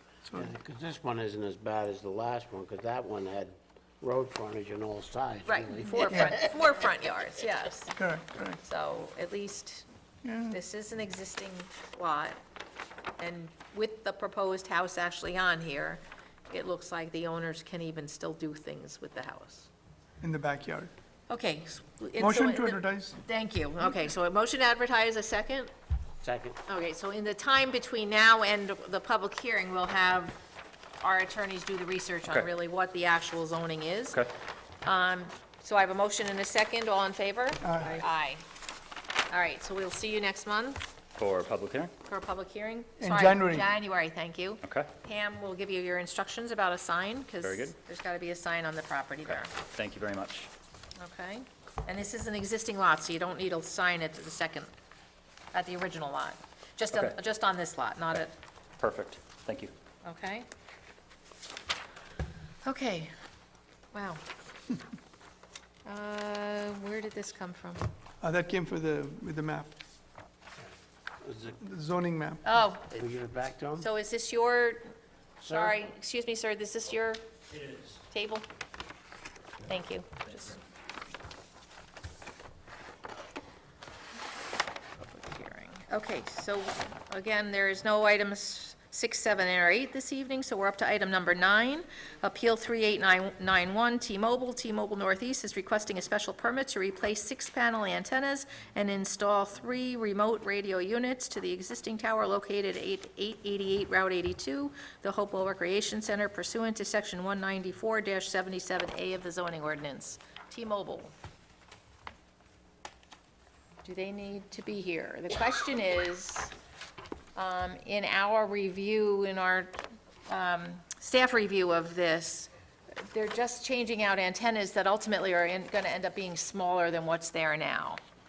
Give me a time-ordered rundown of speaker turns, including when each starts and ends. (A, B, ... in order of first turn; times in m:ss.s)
0:00.4-0:06.5 A
0:05.5-0:08.0 B
0:07.9-0:08.6 C
0:08.6-0:09.9 B
0:10.2-0:10.6 C
0:10.5-0:12.4 B
0:13.2-0:19.7 B
0:20.2-0:20.9 C
0:21.3-0:25.7 B
0:22.2-0:23.2 C
0:26.2-0:26.6 A
0:26.7-0:30.4 B
0:31.0-0:34.2 B
0:34.8-0:38.4 B
0:37.6-0:38.0 C
0:39.3-0:40.8 B
0:41.2-0:41.9 D
0:42.1-0:49.5 B
0:43.0-0:43.7 C
0:44.6-0:44.9 D
0:47.4-0:47.8 D
0:49.5-0:50.5 D
0:51.0-0:54.7 B
0:55.5-0:58.3 B
0:58.8-0:59.7 D
1:00.0-1:00.5 B
1:02.6-1:03.1 B
1:03.9-1:04.2 B
1:05.8-1:07.9 B
1:08.2-1:09.8 C
1:11.2-1:11.6 A
1:11.6-1:12.6 C
1:12.4-1:13.0 B
1:12.9-1:13.9 A
1:13.8-1:14.9 B
1:15.4-1:15.8 A
1:15.5-1:17.3 B
1:17.5-1:17.9 D
1:18.1-1:18.5 B
1:19.6-1:20.6 B
1:25.0-1:51.1 B
1:53.8-1:56.5 B
1:57.4-1:59.8 B
2:00.3-2:08.0 B